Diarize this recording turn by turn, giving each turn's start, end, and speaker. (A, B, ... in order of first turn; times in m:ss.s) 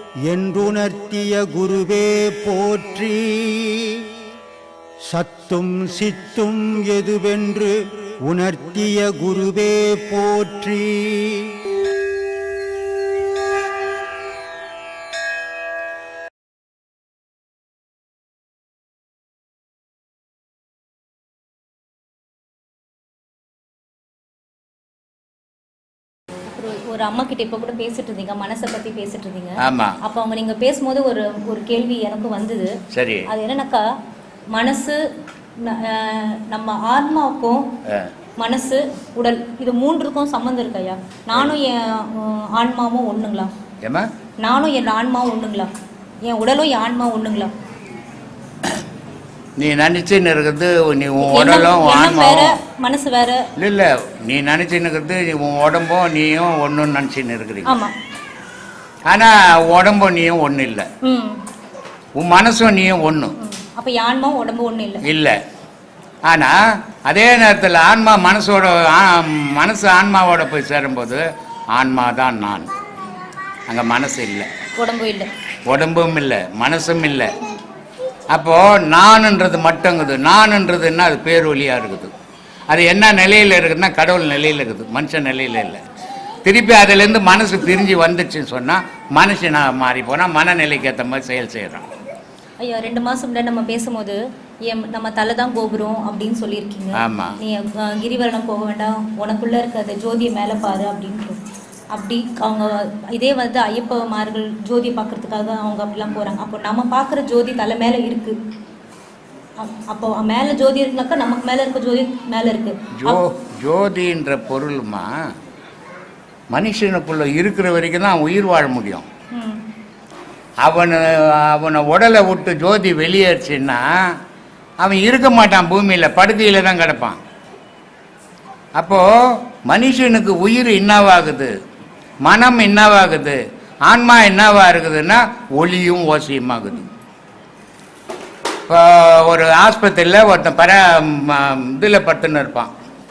0:00.3-0:04.0 A
0:05.1-0:11.5 A
0:26.5-0:32.7 B
0:29.6-0:30.0 C
0:32.9-0:33.3 C
0:33.3-0:33.8 B
0:34.5-0:35.0 B
0:35.6-0:37.6 B
0:38.4-0:43.5 B
0:44.4-0:45.7 B
0:46.2-0:47.5 B
0:49.6-0:52.5 C
0:51.2-0:53.4 B
0:53.6-0:57.7 C
0:57.6-0:57.9 B
0:59.1-1:00.9 C
1:01.0-1:01.4 B
1:02.2-1:03.3 C
1:03.4-1:05.0 B
1:05.0-1:05.4 C
1:06.3-1:06.5 C
1:07.1-1:11.2 C
1:11.7-1:12.7 C
1:13.7-1:14.5 C
1:14.8-1:15.3 B
1:15.7-1:17.3 C
1:18.3-1:22.1 C
1:22.7-1:25.8 C
1:26.4-1:31.9 C
1:32.6-1:41.4 B
1:37.0-1:37.4 C
1:41.9-1:48.4 B
1:49.6-1:53.2 B
1:53.0-1:55.1 C
1:56.5-1:59.1 C
1:59.3-1:59.6 B
2:00.6-2:03.8 C
2:04.8-2:07.2 C
2:08.8-2:09.1 C
2:09.6-2:11.5 C
2:12.3-2:16.8 C
2:18.7-2:22.7 C